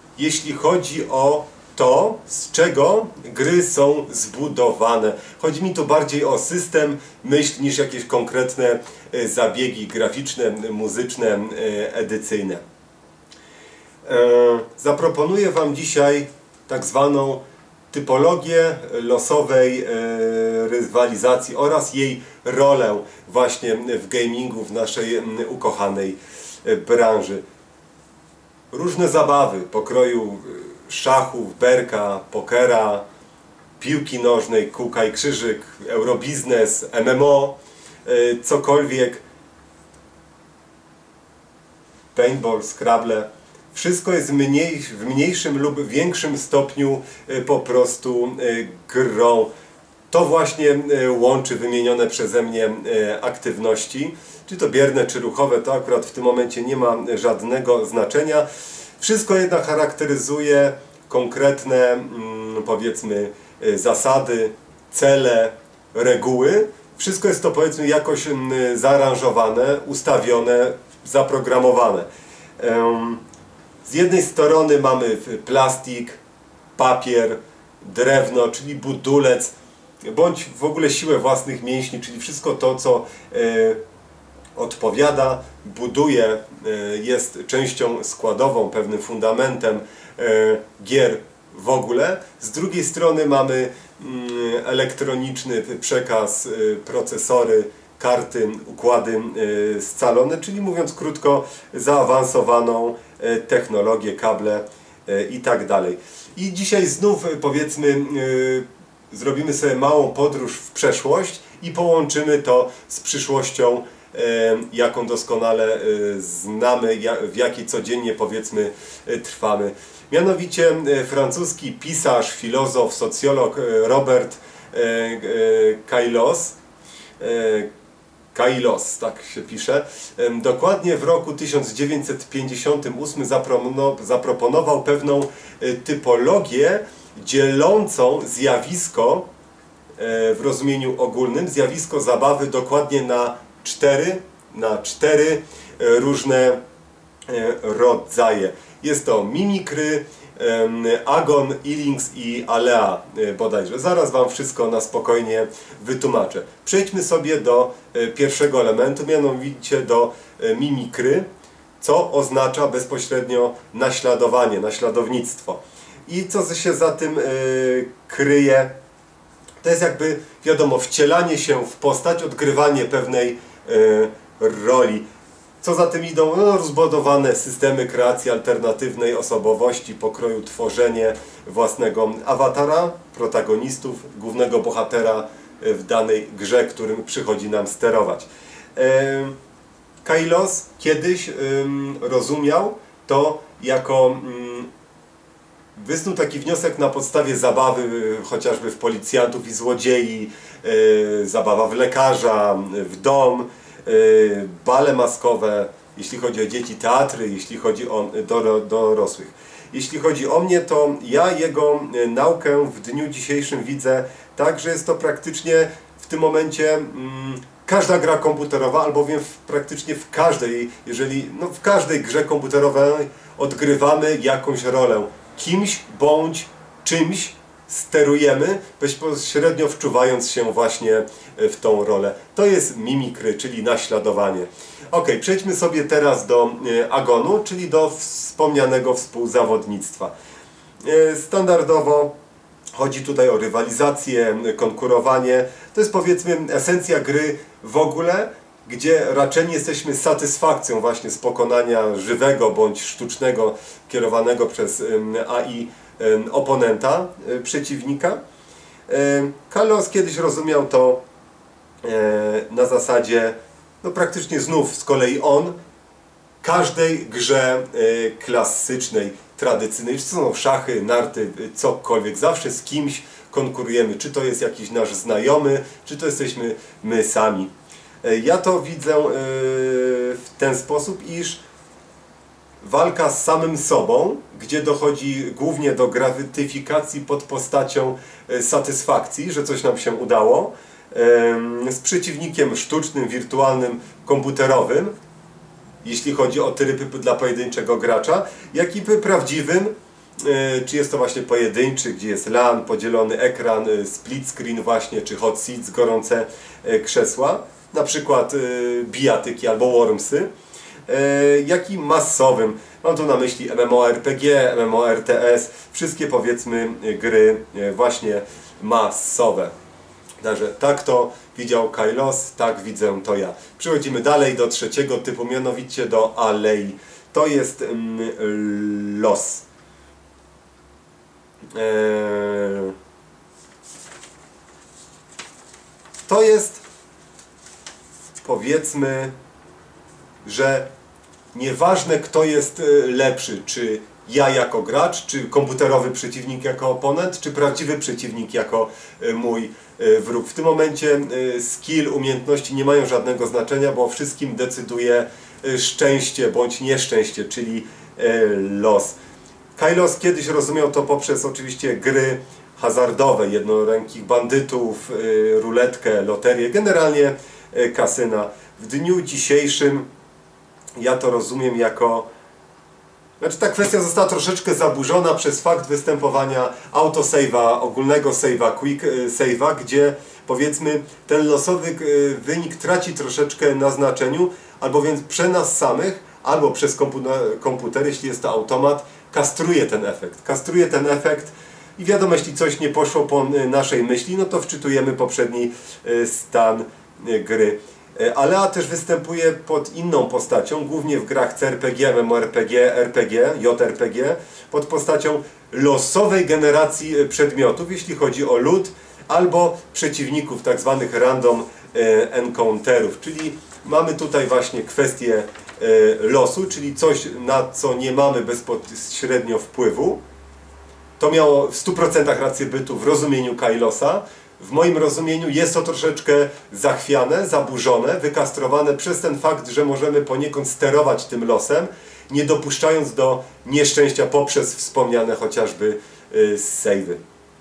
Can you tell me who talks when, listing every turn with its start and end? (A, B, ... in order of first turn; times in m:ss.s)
0:00.2-0:12.6 A
0:14.1-0:27.4 A
0:28.7-0:33.0 A
0:33.8-0:39.2 A
0:42.1-0:49.5 A
0:50.1-0:58.5 A
0:59.0-1:12.1 A
1:12.6-1:13.2 A
1:13.8-1:16.2 A
1:16.8-1:23.8 A
1:24.6-2:06.6 A
2:07.2-2:07.7 A
2:08.3-2:19.3 A
2:20.0-2:26.6 A
2:27.3-2:41.3 A
2:41.8-2:48.8 A
2:49.6-2:55.0 A
2:55.6-3:09.4 A
3:10.0-3:14.7 A
3:15.8-4:00.1 A
4:00.8-4:02.1 A
4:02.8-4:18.2 A
4:18.9-4:21.0 A
4:21.8-4:25.6 A
4:26.4-4:37.5 A
4:38.0-4:41.4 A
4:42.6-4:54.9 A
4:55.8-5:10.3 A
5:10.9-5:19.5 A
5:20.2-5:29.4 A
5:31.5-5:32.7 A
5:36.1-5:36.6 A
5:38.2-5:39.1 A
5:40.2-5:40.7 A
5:41.3-5:59.0 A
5:59.6-6:09.9 A
6:10.8-6:12.1 A
6:13.2-7:00.0 A
7:01.0-7:17.0 A